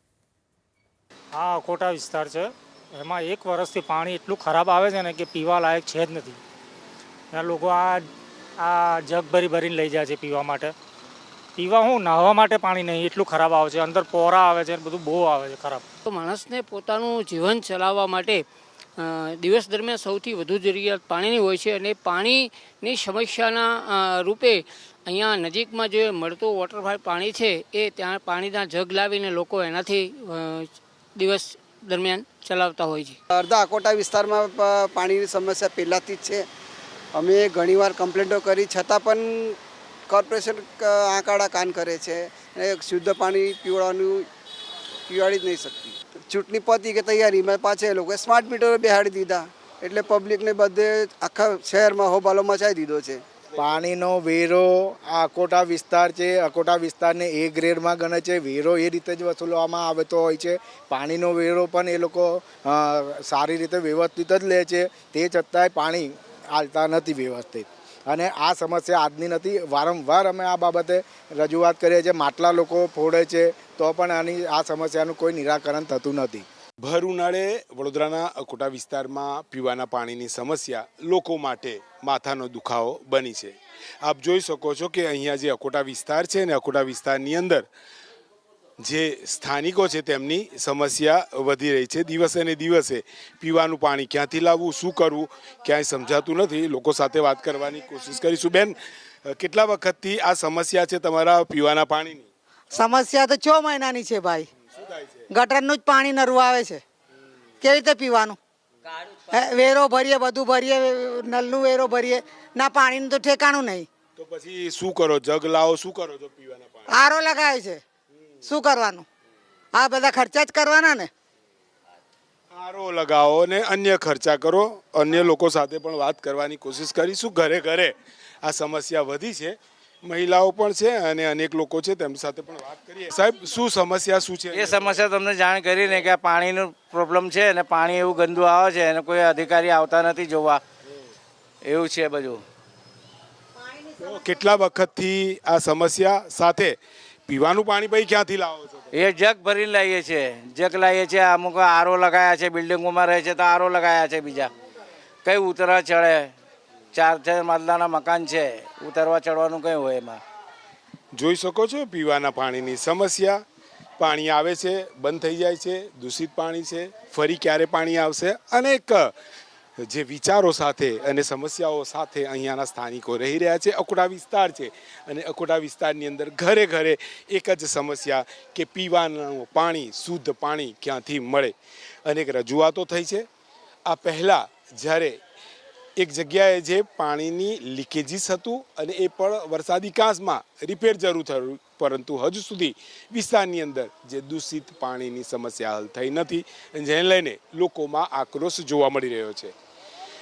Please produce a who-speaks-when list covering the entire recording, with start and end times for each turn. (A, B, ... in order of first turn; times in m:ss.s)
0:01.3-0:06.4 A
0:07.3-0:10.8 A
0:11.6-0:15.8 A
0:16.1-0:18.5 B
0:19.0-0:33.2 B
0:33.3-0:36.5 C
0:37.1-0:39.6 C
0:40.1-0:44.2 C
0:45.1-0:53.2 C
0:53.6-1:16.4 D
1:16.8-1:27.7 E
1:28.8-1:42.3 E
1:42.7-1:44.5 F
1:44.7-1:45.2 E
1:45.3-1:46.8 F
1:47.6-1:48.4 F
1:49.3-1:53.9 F
1:54.2-1:57.0 E
1:56.9-1:57.8 F
1:58.4-1:59.0 F
1:59.8-2:01.1 F
2:02.5-2:15.0 E
2:14.5-2:20.6 G
2:21.6-2:22.4 G
2:23.9-2:26.8 E
2:27.3-2:28.9 E
2:28.9-2:34.5 G
2:35.2-2:36.3 G
2:36.9-2:40.2 G
2:41.1-2:43.4 E
2:44.0-2:49.1 E
2:49.8-3:01.5 E
3:02.1-3:03.3 E
3:03.9-3:05.2 E
3:06.0-3:19.5 E